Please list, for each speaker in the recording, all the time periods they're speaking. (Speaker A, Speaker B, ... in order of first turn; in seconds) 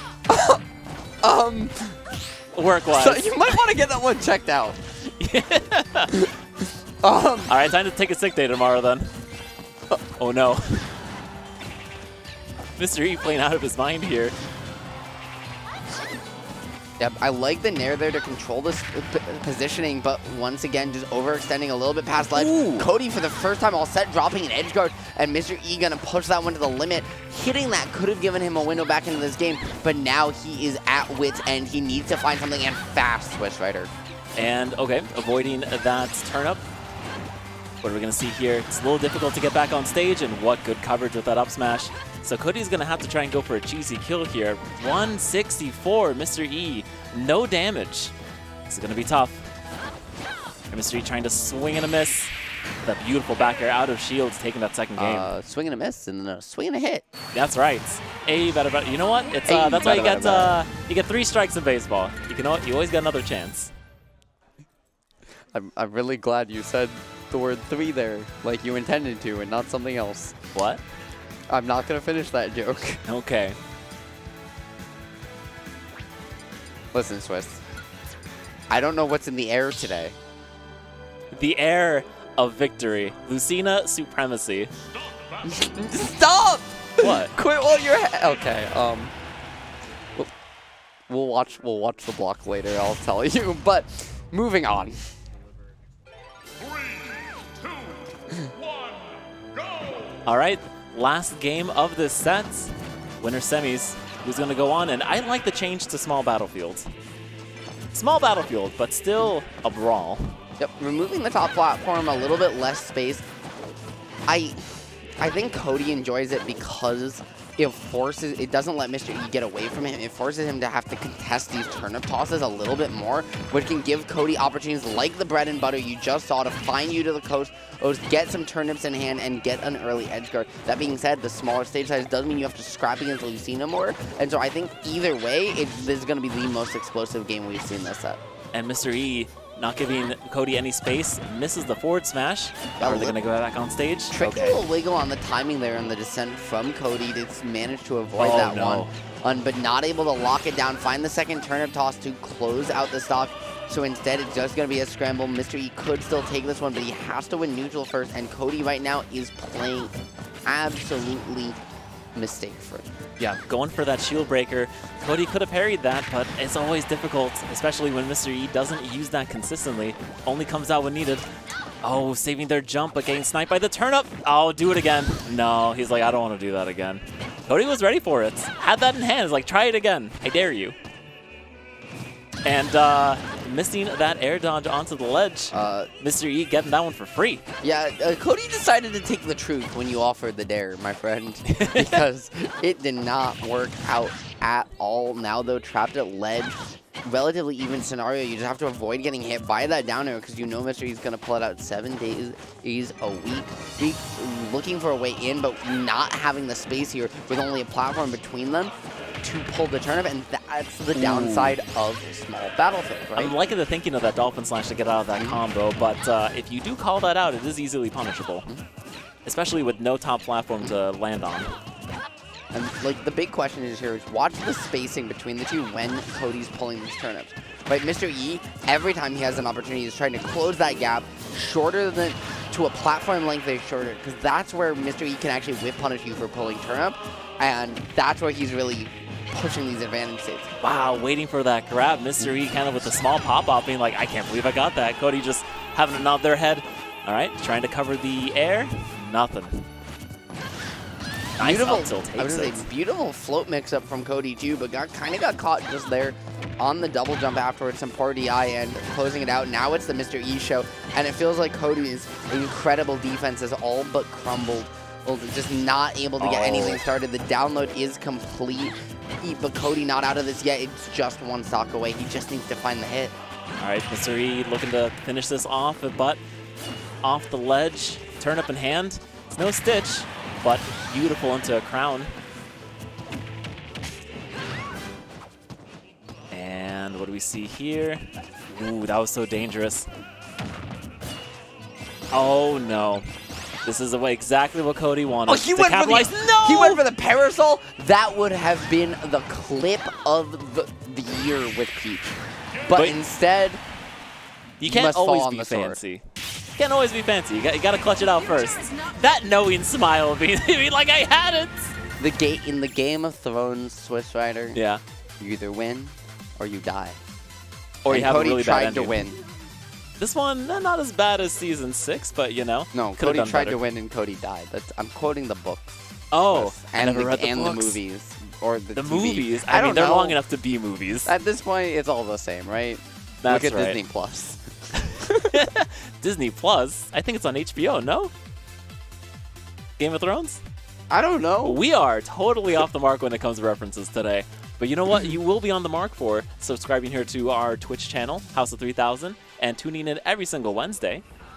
Speaker A: 0.3-0.6, 1.2-2.0, 2.9-4.8, 7.0-7.5, 17.0-33.9, 55.0-57.1, 59.5-60.6, 65.5-70.4, 71.5-73.0, 76.9-77.6, 78.7-80.2, 85.4-89.1, 91.1-95.0, 110.6-113.2, 114.3-138.2, 142.8-143.2, 144.1-159.9, 160.5-161.6, 162.2-162.9, 185.5-185.9, 187.6-213.3, 215.2-215.4, 222.5-240.5, 251.4-273.1, 295.3-303.6, 304.6-305.8, 312.0-314.6, 315.2-317.0, 317.9-319.2, 322.7-330.2, 331.1-335.3, 340.9-341.6
Speaker B: 2.5-3.7, 5.2-6.2, 7.5-9.1, 10.2-10.9, 12.8-14.3, 22.4-22.9, 34.4-36.6, 37.8-48.1, 48.7-49.5, 50.7-55.3, 57.3-63.7, 70.5-70.8, 73.1-73.6, 81.3-84.7, 87.0-87.3, 100.3-106.9, 107.9-110.4, 138.5-144.6, 148.2-148.9, 163.2-171.2, 171.8-180.8, 182.4-187.4, 191.5-192.0, 210.9-211.6, 213.2-218.5, 219.2-221.5, 240.6-249.7, 251.4-252.6, 266.2-266.8, 273.6-276.2, 277.0-282.1, 286.3-289.9, 292.1-293.1, 293.6-296.8, 302.7-303.0, 304.6-306.0, 306.6-311.8, 314.5-314.8, 317.8-319.0, 320.0-323.6, 326.1-327.8, 328.8-331.1, 333.2-333.8, 334.8-338.1, 339.8-340.4, 341.4-351.0